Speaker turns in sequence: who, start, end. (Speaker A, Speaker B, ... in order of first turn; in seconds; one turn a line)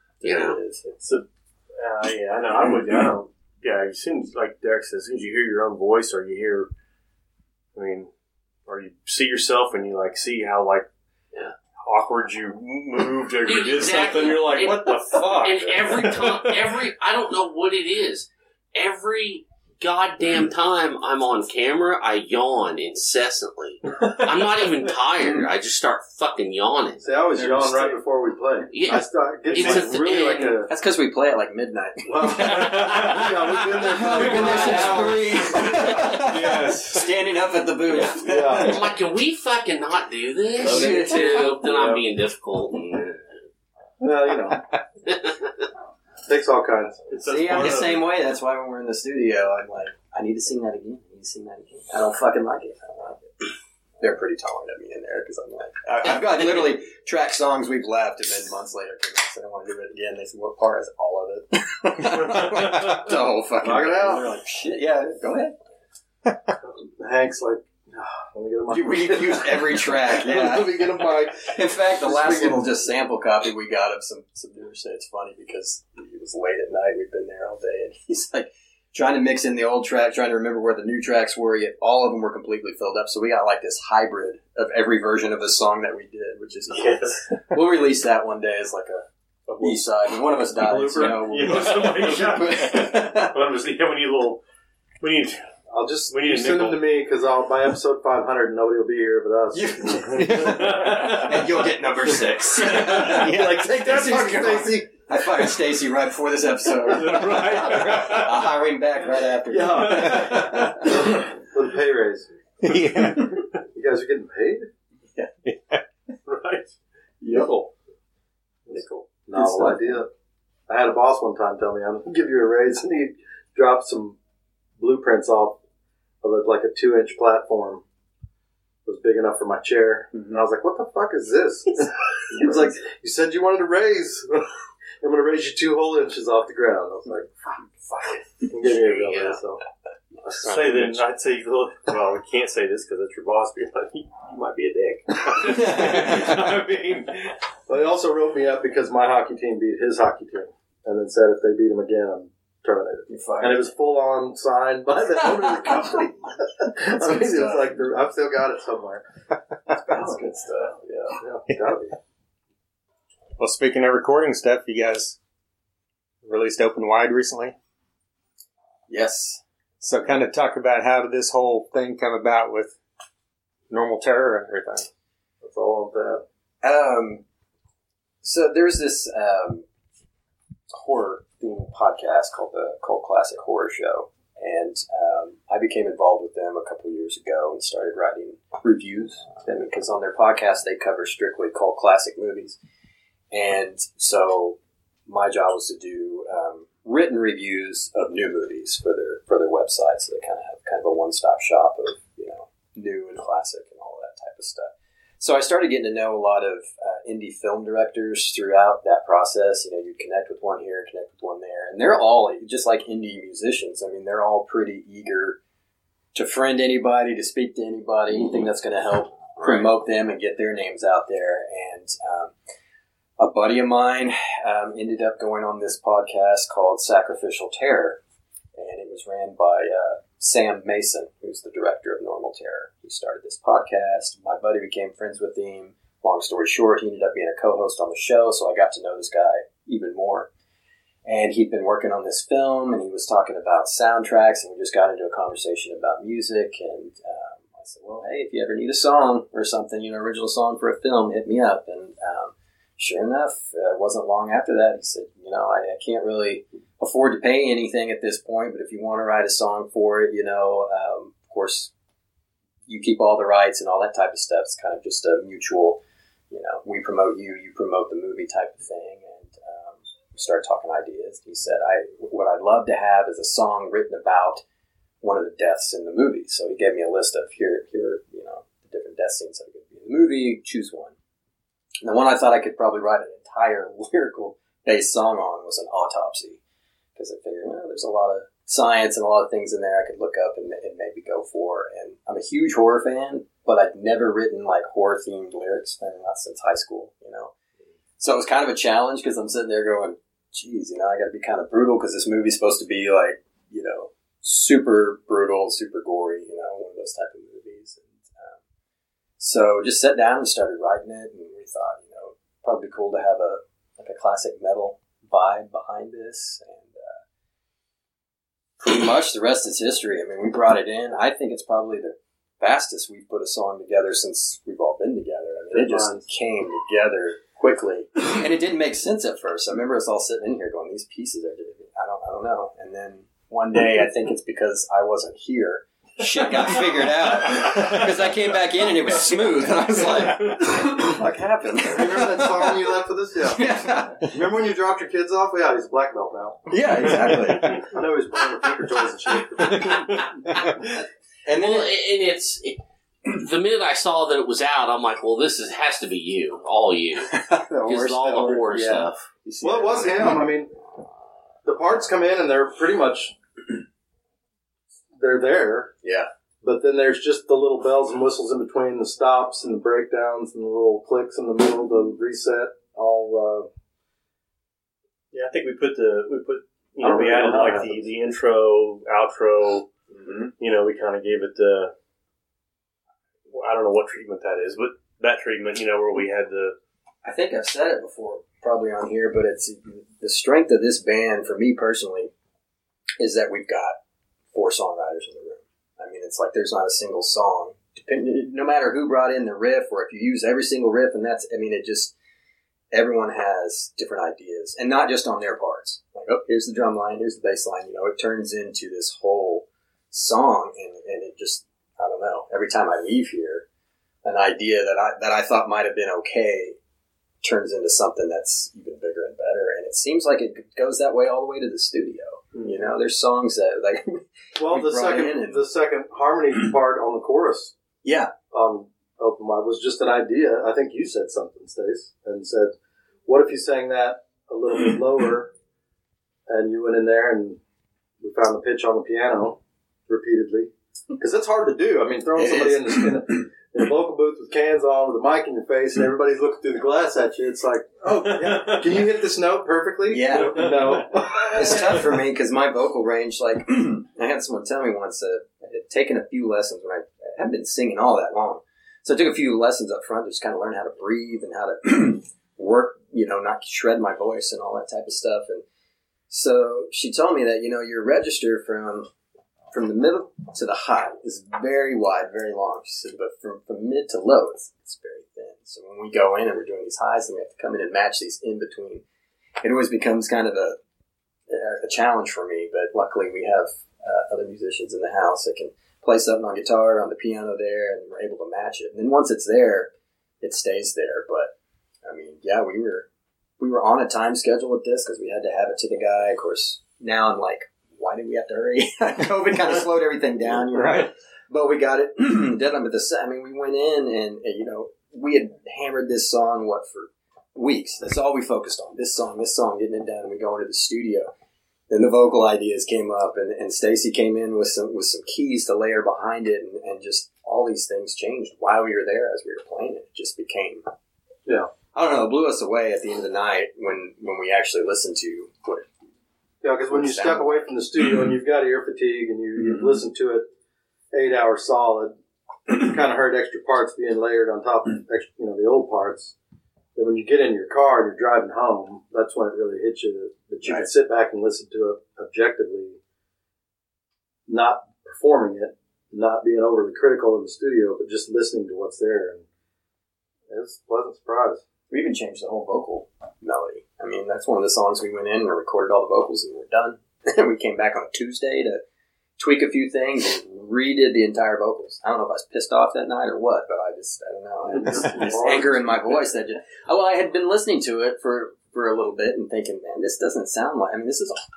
Speaker A: 0.2-0.8
Speaker B: 0.2-0.6
Speaker C: 0.8-6.7
Speaker C: 7.7-8.1
Speaker C: 8.7-10.9
Speaker C: 11.8-16.8
Speaker B: 13.4-27.1
Speaker D: 27.0-30.7
Speaker A: 27.4-28.0
Speaker B: 28.7-30.6
Speaker C: 29.6-29.9
Speaker A: 30.7-32.7
Speaker D: 32.0-36.2
Speaker C: 32.4-33.3
Speaker A: 33.8-38.8
Speaker C: 34.0-37.1
Speaker D: 38.1-38.8
Speaker B: 38.5-43.2
Speaker A: 40.6-41.5
Speaker C: 40.6-41.5
Speaker D: 40.8-42.0
Speaker D: 44.0-44.6
Speaker B: 45.1-45.5
Speaker D: 46.2-47.0
Speaker C: 47.1-48.1
Speaker A: 47.2-53.5
Speaker A: 54.0-65.5
Speaker C: 62.0-63.0
Speaker D: 63.6-64.3
Speaker D: 66.6-72.8
Speaker A: 68.7-89.1
Speaker C: 86.7-87.4
Speaker C: 89.5-89.9
Speaker A: 89.6-93.4
Speaker C: 90.5-94.4
Speaker C: 95.0-95.4
Speaker D: 95.7-100.2
Speaker C: 96.1-96.8
Speaker A: 99.5-110.9
Speaker C: 100.1-103.3
Speaker E: 100.1-101.1
Speaker D: 102.7-104.9
Speaker E: 103.1-103.7
Speaker C: 106.8-108.5
Speaker D: 109.5-112.3
Speaker C: 109.7-110.9
Speaker E: 112.6-113.4
Speaker D: 113.6-114.7
Speaker E: 115.5-115.8
Speaker C: 116.2-116.7
Speaker A: 117.2-117.7
Speaker D: 118.7-120.1
Speaker A: 118.7-120.0
Speaker C: 118.7-119.1
Speaker D: 120.7-124.2
Speaker D: 124.8-125.6
Speaker D: 126.2-127.8
Speaker D: 128.8-137.6
Speaker A: 130.1-130.4
Speaker A: 132.3-132.7
Speaker D: 138.4-139.6
Speaker B: 138.6-139.4
Speaker C: 140.2-147.4
Speaker E: 140.4-141.0
Speaker A: 145.5-146.0
Speaker D: 147.7-159.0
Speaker A: 153.1-153.7
Speaker A: 155.1-156.0
Speaker A: 156.9-157.8
Speaker D: 159.7-162.0
Speaker A: 159.9-161.2
Speaker E: 163.4-165.2
Speaker E: 166.2-167.6
Speaker A: 168.9-169.4
Speaker E: 169.8-172.8
Speaker E: 173.7-174.9
Speaker D: 175.4-176.2
Speaker A: 176.6-177.2
Speaker A: 178.2-179.6
Speaker A: 180.7-192.6
Speaker A: 193.3-215.4
Speaker A: 216.1-222.3
Speaker A: 223.2-228.0
Speaker A: 228.5-240.3
Speaker A: 241.1-261.7
Speaker A: 262.7-265.8
Speaker A: 266.3-274.4
Speaker A: 275.0-280.9
Speaker A: 281.8-286.4
Speaker A: 286.9-297.3
Speaker A: 298.0-308.4
Speaker A: 309.2-317.0
Speaker A: 318.6-344.1
Speaker D: 325.5-326.0
Speaker C: 339.6-340.4
Speaker D: 341.7-350.1
Speaker A: 346.5-347.6
Speaker A: 351.2-351.7
Speaker B: 351.3-359.1
Speaker A: 357.1-360.3
Speaker D: 359.4-360.5
Speaker D: 361.4-363.1
Speaker D: 365.0-365.7
Speaker A: 365.8-366.1
Speaker D: 366.4-373.5
Speaker C: 375.1-379.7
Speaker D: 376.8-377.9
Speaker A: 379.9-380.3
Speaker C: 380.4-381.7
Speaker C: 383.3-386.6
Speaker A: 387.0-392.1
Speaker A: 393.0-393.8
Speaker A: 394.3-401.9
Speaker A: 402.7-413.4
Speaker A: 414.0-416.6
Speaker A: 417.2-425.4
Speaker D: 422.3-422.6
Speaker D: 424.4-427.5
Speaker A: 427.8-428.1
Speaker D: 428.3-432.5
Speaker D: 433.1-435.3
Speaker D: 436.3-437.4
Speaker D: 438.0-451.8
Speaker A: 442.1-443.2
Speaker C: 448.0-448.9
Speaker A: 449.9-450.7
Speaker C: 450.1-451.8
Speaker A: 451.3-465.4
Speaker A: 466.1-468.9
Speaker A: 469.5-478.8
Speaker A: 479.4-480.6
Speaker A: 481.3-489.7
Speaker A: 490.2-491.3
Speaker A: 491.8-492.9
Speaker A: 493.4-511.1
Speaker E: 500.5-500.9
Speaker A: 511.7-520.6
Speaker A: 521.7-525.7
Speaker D: 526.4-530.3
Speaker A: 526.7-527.5
Speaker A: 529.4-529.8
Speaker D: 530.9-531.9
Speaker D: 532.5-536.1
Speaker D: 536.7-542.8
Speaker D: 544.3-549.2
Speaker D: 550.3-551.4
Speaker A: 551.7-558.6
Speaker A: 559.2-571.2
Speaker D: 564.5-566.0